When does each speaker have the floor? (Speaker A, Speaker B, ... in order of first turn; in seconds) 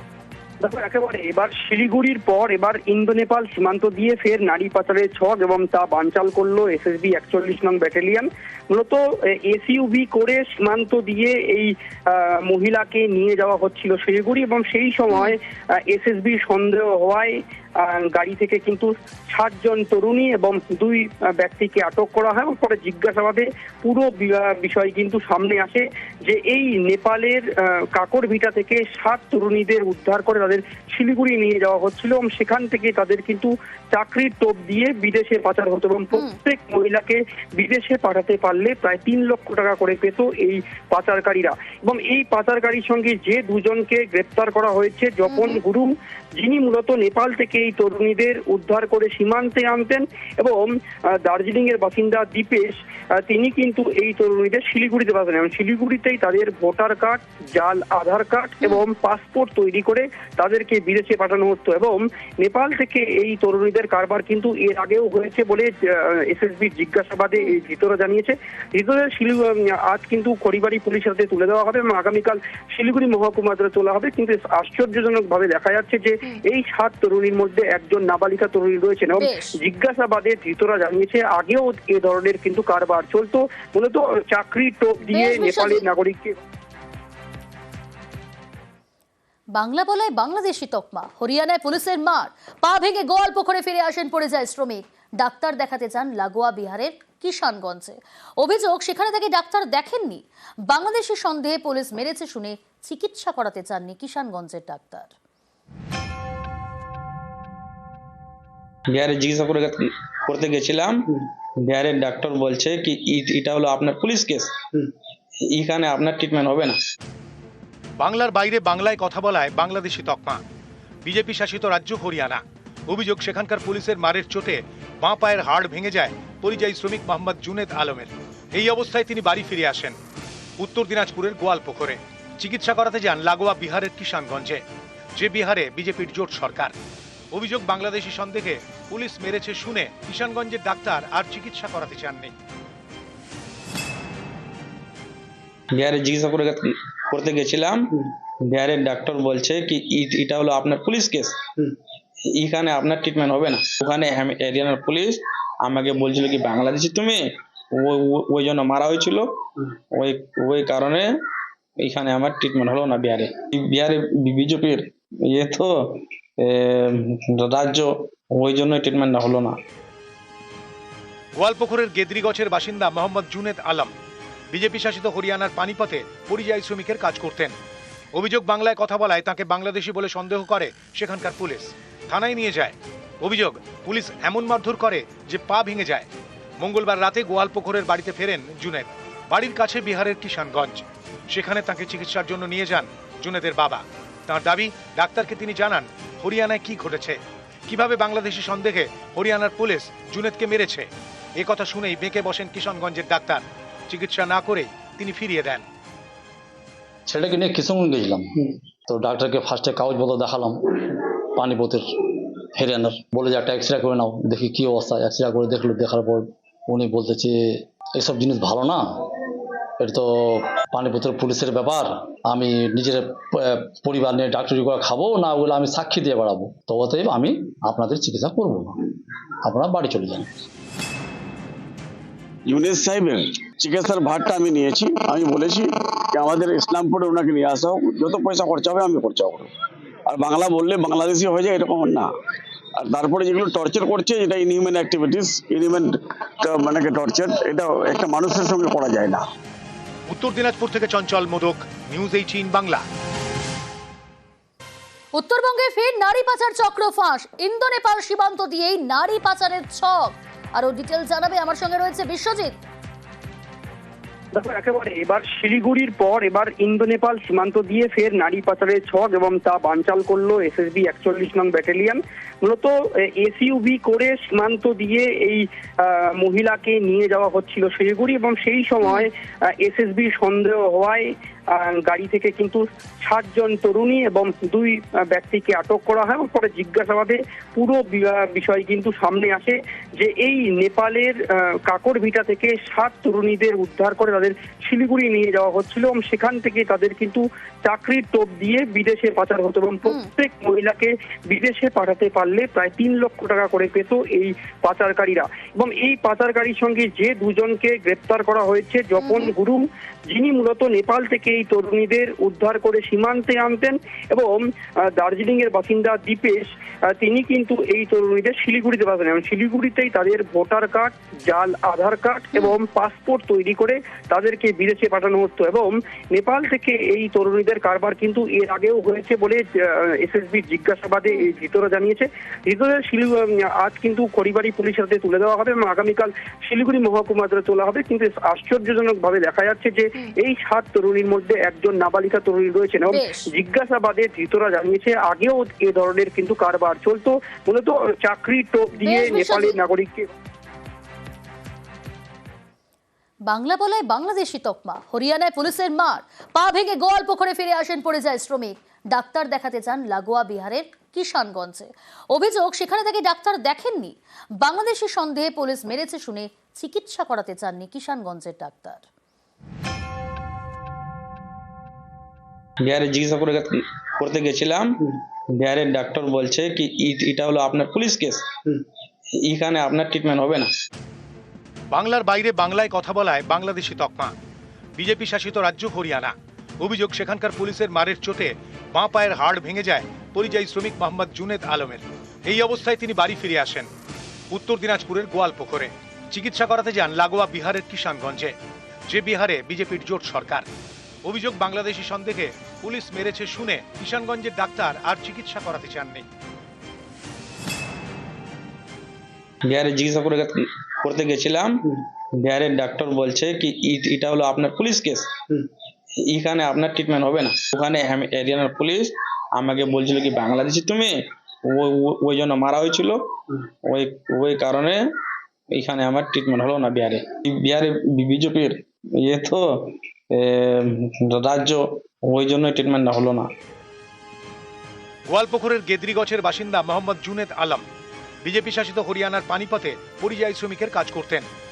Speaker A: 0.6-86.4, 264.3-350.1
Speaker B: 36.1-36.4, 45.3-45.6, 79.2-79.6, 85.1-85.9, 89.5-105.1, 255.1-262.6, 309.0-309.3, 342.9-343.3, 348.8-349.6, 353.3-368.8
Speaker C: 108.9-111.1, 111.6-114.6, 115.5-116.8, 145.7-147.9, 148.4-151.5, 152.3-159.4, 159.9-161.1, 161.8-169.6, 372.6-374.8, 375.3-378.3, 379.2-380.5, 409.5-411.6, 412.2-415.2, 416.0-423.1, 423.7-424.8, 425.5-433.3
Speaker D: 118.0-120.4, 121.0-130.0, 130.6-134.6, 135.2-136.8, 137.3-142.3, 171.4-173.9, 174.5-177.6, 178.1-186.1, 186.6-205.7, 250.1-252.8, 381.7-384.1, 384.8-393.7, 394.3-398.4, 398.9-400.5, 401.1-406.1, 435.1-437.6, 438.2-441.3
Speaker E: 207.1-208.3, 208.9-211.9, 212.6-219.1, 219.8-228.8, 229.4-230.3
Speaker F: 232.5-239.5, 240.1-242.1, 242.8-249.2